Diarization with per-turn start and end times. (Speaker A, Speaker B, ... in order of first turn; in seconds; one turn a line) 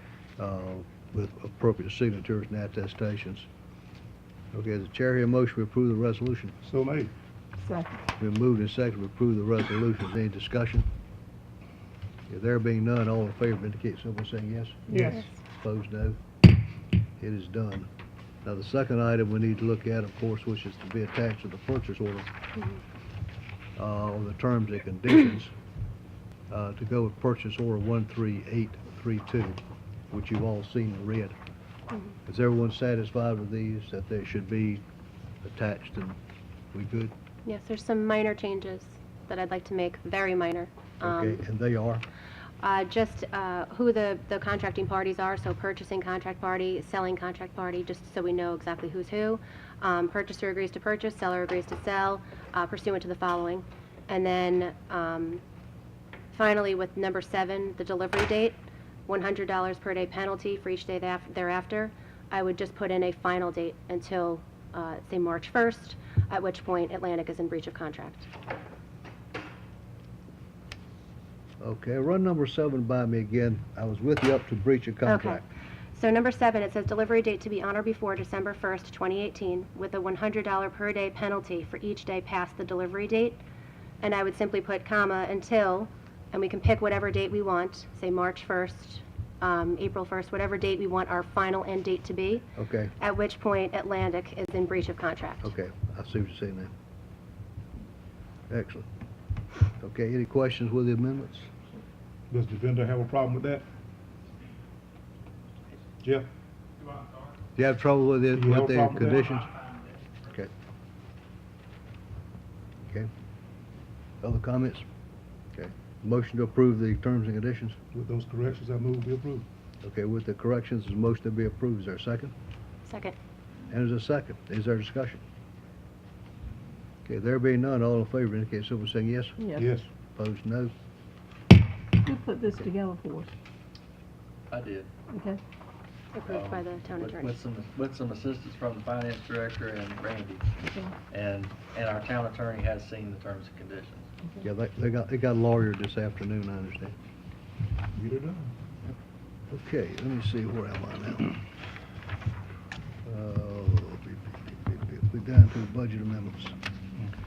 Speaker A: 0.4-3.5
Speaker A: 4.5-6.6
Speaker B: 6.6-7.1
Speaker C: 7.6-8.0
Speaker A: 8.2-10.9
Speaker A: 12.3-16.2
Speaker B: 14.9-15.2
Speaker A: 17.2-17.9
Speaker A: 18.4-22.3
Speaker A: 23.8-25.5
Speaker A: 26.5-29.6
Speaker A: 30.1-31.4
Speaker A: 32.3-34.8
Speaker A: 35.4-36.2
Speaker A: 36.7-37.1
Speaker D: 37.5-41.4
Speaker A: 41.0-42.1
Speaker D: 42.6-55.4
Speaker D: 56.3-68.3
Speaker A: 71.6-75.5
Speaker D: 75.0-83.4
Speaker D: 84.0-95.5
Speaker A: 92.6-92.9
Speaker A: 95.4-96.7
Speaker A: 98.5-98.9
Speaker A: 99.8-101.5
Speaker B: 102.3-103.7
Speaker B: 106.0-106.3
Speaker A: 107.6-109.6
Speaker B: 108.3-109.3
Speaker A: 110.2-110.5
Speaker A: 114.2-114.9
Speaker A: 115.5-117.8
Speaker B: 117.9-119.5
Speaker A: 119.8-122.3
Speaker D: 122.8-123.2
Speaker A: 123.7-125.2
Speaker A: 127.1-129.4
Speaker C: 129.4-129.7
Speaker B: 129.6-129.9
Speaker A: 130.2-130.7
Speaker C: 132.0-133.3
Speaker E: 134.5-134.9
Speaker C: 135.1-135.4
Speaker D: 136.1-137.4
Speaker E: 136.3-140.6
Speaker C: 140.7-140.9
Speaker E: 141.1-144.1
Speaker A: 144.4-146.9
Speaker B: 147.9-148.5
Speaker A: 149.5-151.4
Speaker A: 153.1-156.6